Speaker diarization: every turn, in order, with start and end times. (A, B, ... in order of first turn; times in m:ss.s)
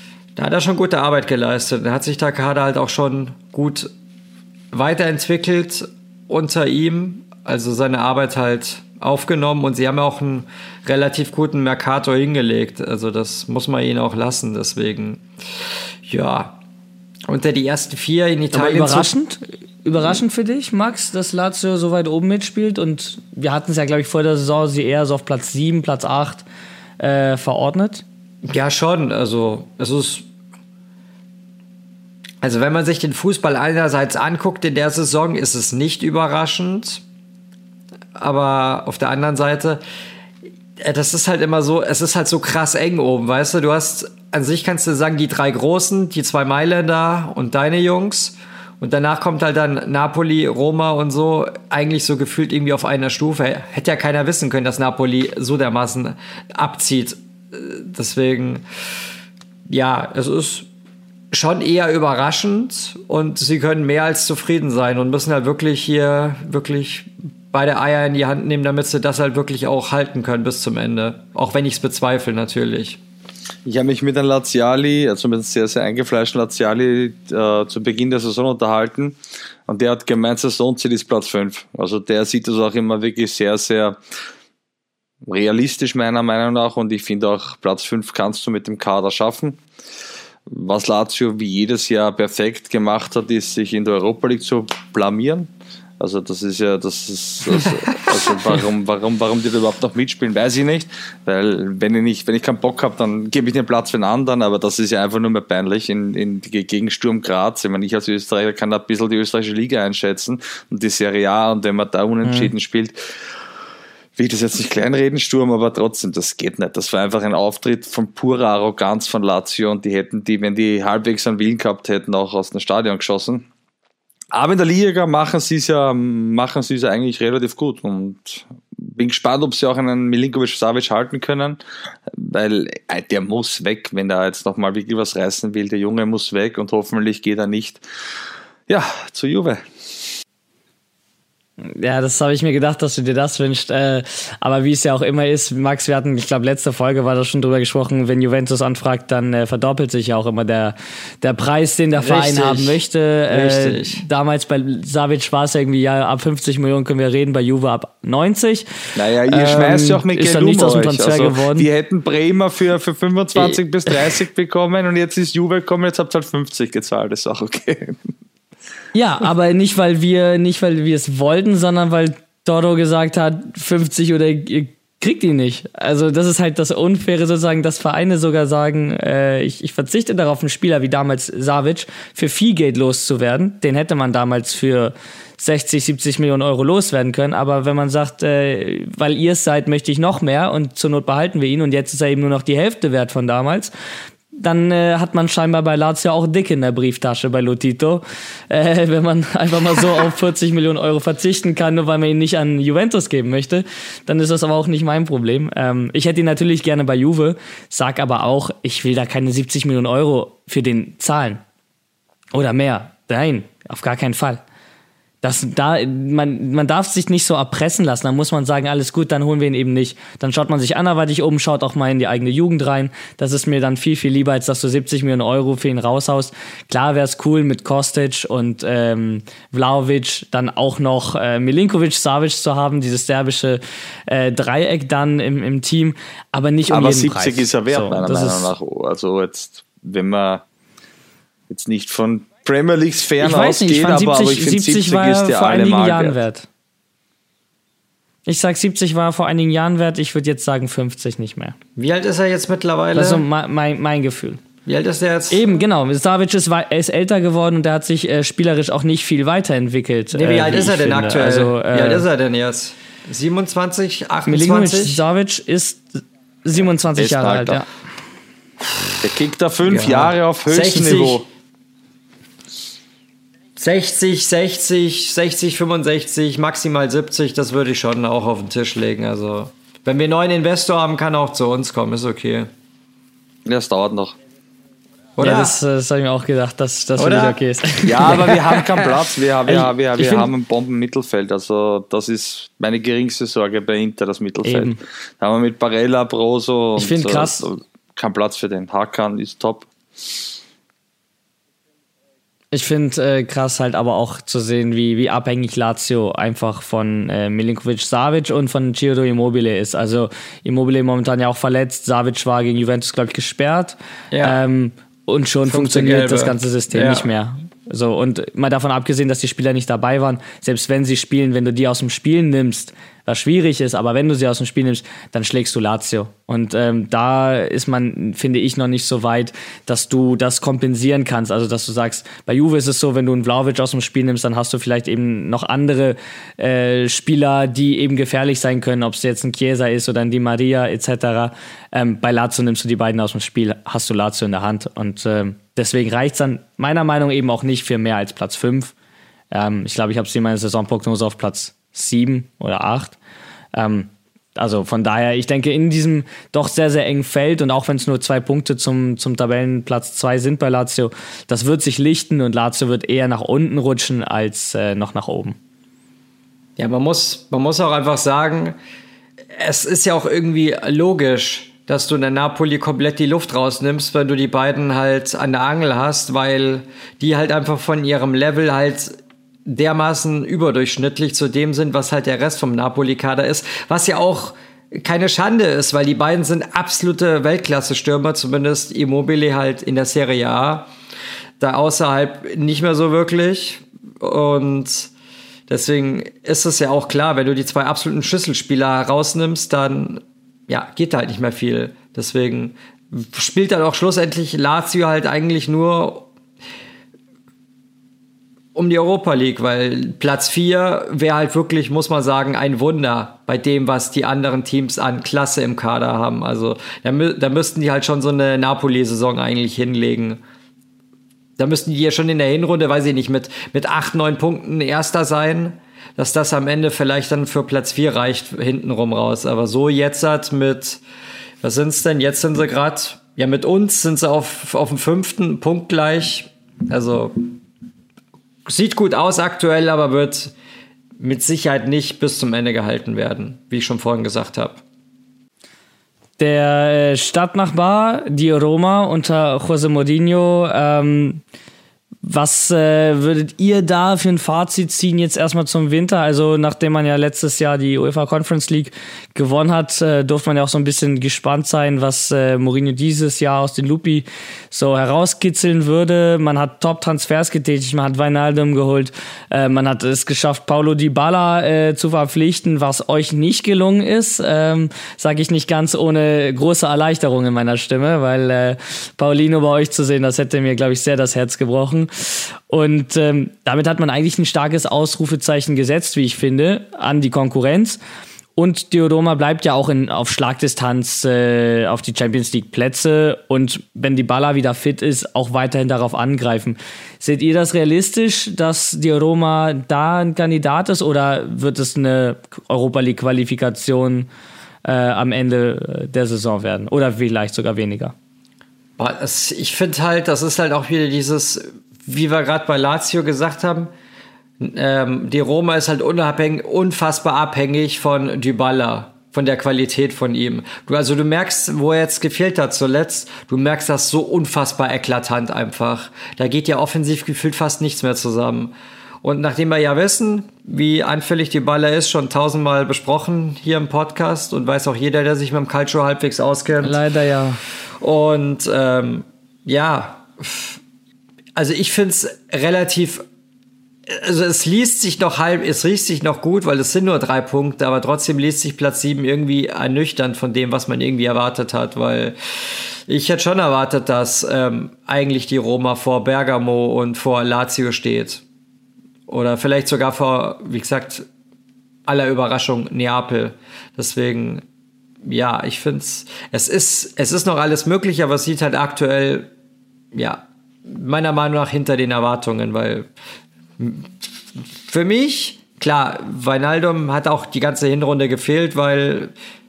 0:00.4-0:03.9 A
0:04.7-0:15.2 A
0:16.0-0:16.6 A
0:17.3-0:19.1 A
0:18.5-0:26.4 B
0:27.0-0:28.0 B
0:28.4-0:30.2 A
0:32.4-0:37.0 A
0:38.2-0:39.8 A
0:40.8-0:58.6 A
0:59.7-1:00.7 A
1:01.3-1:13.0 A
1:13.6-1:24.0 C
1:25.2-1:29.6 C
1:30.5-1:35.5 C
1:36.0-1:53.0 C
1:52.2-1:52.5 B
1:54.2-2:03.4 C
2:04.3-2:11.6 C
2:12.1-2:17.8 C
2:18.7-2:19.6 C
2:21.6-2:38.7 B
2:32.0-2:32.8 A
2:33.3-2:34.0 A
2:39.0-2:48.0 C
2:39.3-2:41.7 B
2:43.3-2:43.9 B
2:48.9-3:13.7 B
3:14.4-3:31.4 B
3:32.3-3:34.4 B
3:35.2-3:58.5 B
3:56.7-4:00.4 C
4:01.5-4:06.2 C
4:03.2-4:06.5 B
4:08.2-4:11.6 B
4:11.8-4:13.2 A
4:12.9-4:14.4 B
4:14.6-4:15.4 A
4:15.3-4:22.1 B
4:20.1-4:25.0 A
4:24.3-4:27.6 B
4:27.0-4:27.6 C
4:29.0-4:31.2 C
4:29.6-4:31.2 A
4:33.6-4:42.5 A
4:43.4-4:44.2 C
4:45.2-4:45.6 A
4:45.2-4:48.4 B
4:47.0-4:47.4 A
4:47.8-5:00.2 C
4:48.1-4:48.9 A
4:49.5-4:50.3 B
4:54.4-4:54.8 B
4:56.8-4:57.5 B
5:02.5-5:48.7 B
5:14.1-5:14.4 A
5:15.4-5:17.1 A
5:49.3-5:53.0 B
5:53.5-6:05.4 B
6:06.6-6:08.6 A
6:09.3-6:30.7 A
6:31.4-6:34.9 A
6:35.5-6:46.1 A
6:48.5-7:00.2 A
7:01.4-7:10.8 A
7:11.4-7:17.2 A
7:18.4-7:20.3 A
7:21.0-7:24.6 A
7:26.2-7:31.2 B
7:32.0-8:07.8 B
8:08.4-8:24.1 B
8:24.6-8:27.9 B
8:28.8-8:33.7 A
8:34.4-8:56.8 A
8:56.6-8:57.4 B
8:57.8-9:00.6 A
9:01.3-9:03.0 A
9:03.9-9:18.2 A
9:19.1-9:21.1 A
9:21.8-9:24.4 A
9:25.0-9:29.3 A
9:29.9-9:32.9 A
9:33.6-9:39.1 A